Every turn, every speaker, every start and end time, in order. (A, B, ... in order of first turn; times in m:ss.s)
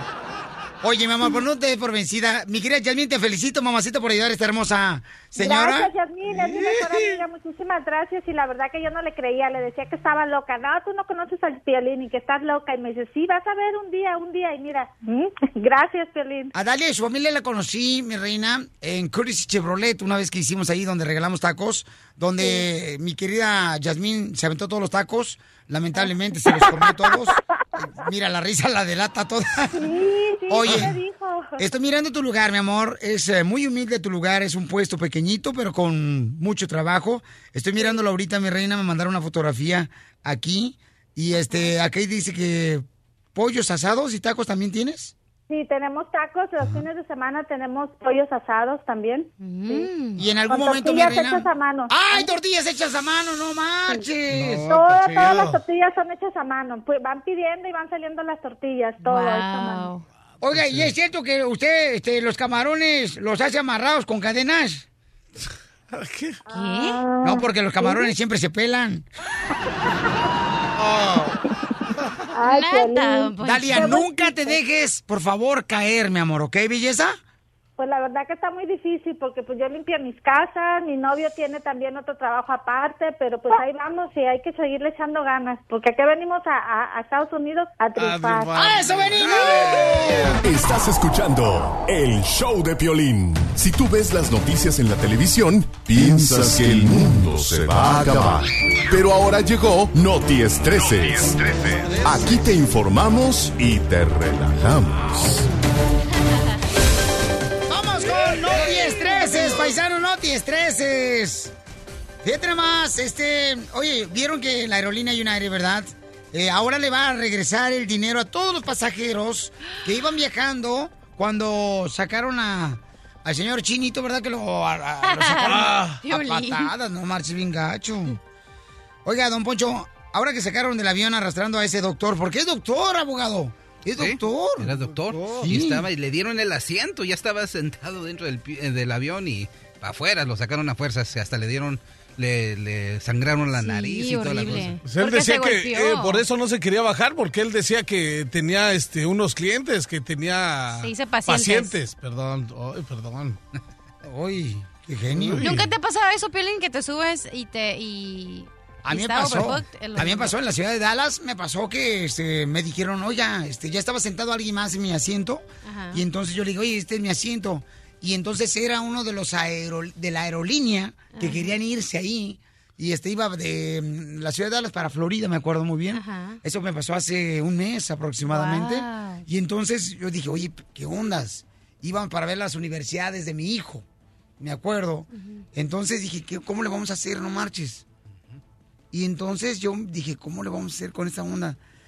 0:00.8-0:05.9 A
0:05.4-0:16.5 B
0:06.3-0:07.2 C
0:16.5-0:29.9 A
0:22.4-0:22.7 B
0:26.0-0:27.2 B
0:29.7-0:31.6 B
0:30.5-0:31.0 A
0:31.6-0:42.8 A
0:43.4-0:45.1 A
0:45.5-0:49.9 B
0:49.4-0:50.2 D
0:50.2-0:54.9 A
0:50.5-0:52.3 B
0:53.9-0:59.9 B
0:54.4-0:55.6 C
0:59.0-1:00.1 D
1:00.4-1:04.8 A
1:00.5-1:00.9 C
1:05.9-1:06.4 C
1:06.5-1:07.0 D
1:06.5-1:08.1 B
1:07.2-1:09.1 A
1:10.8-1:11.3 C
1:12.3-1:14.6 B
1:12.4-1:14.0 D
1:13.4-1:17.2 A
1:17.8-1:28.7 B
1:28.0-1:30.4 C
1:28.6-1:30.4 A
1:30.4-1:41.4 E
1:42.0-1:45.4 E
1:47.7-1:51.5 A
1:48.1-1:49.6 C
1:52.2-2:08.2 A
2:05.0-2:06.7 D
2:05.5-2:06.0 C
2:09.0-2:15.9 A
2:14.0-2:24.8 F
2:23.6-2:26.2 D
2:24.8-2:33.4 C
2:30.8-2:31.7 D
2:34.0-2:35.4 A
2:35.1-2:35.7 C
2:35.4-2:40.4 D
2:38.9-3:03.8 A
2:45.6-2:46.0 D
2:51.1-2:51.5 D
2:55.9-2:56.4 D
2:58.3-2:59.2 D
3:04.4-3:07.8 A
3:05.1-3:05.4 D
3:08.9-3:11.6 A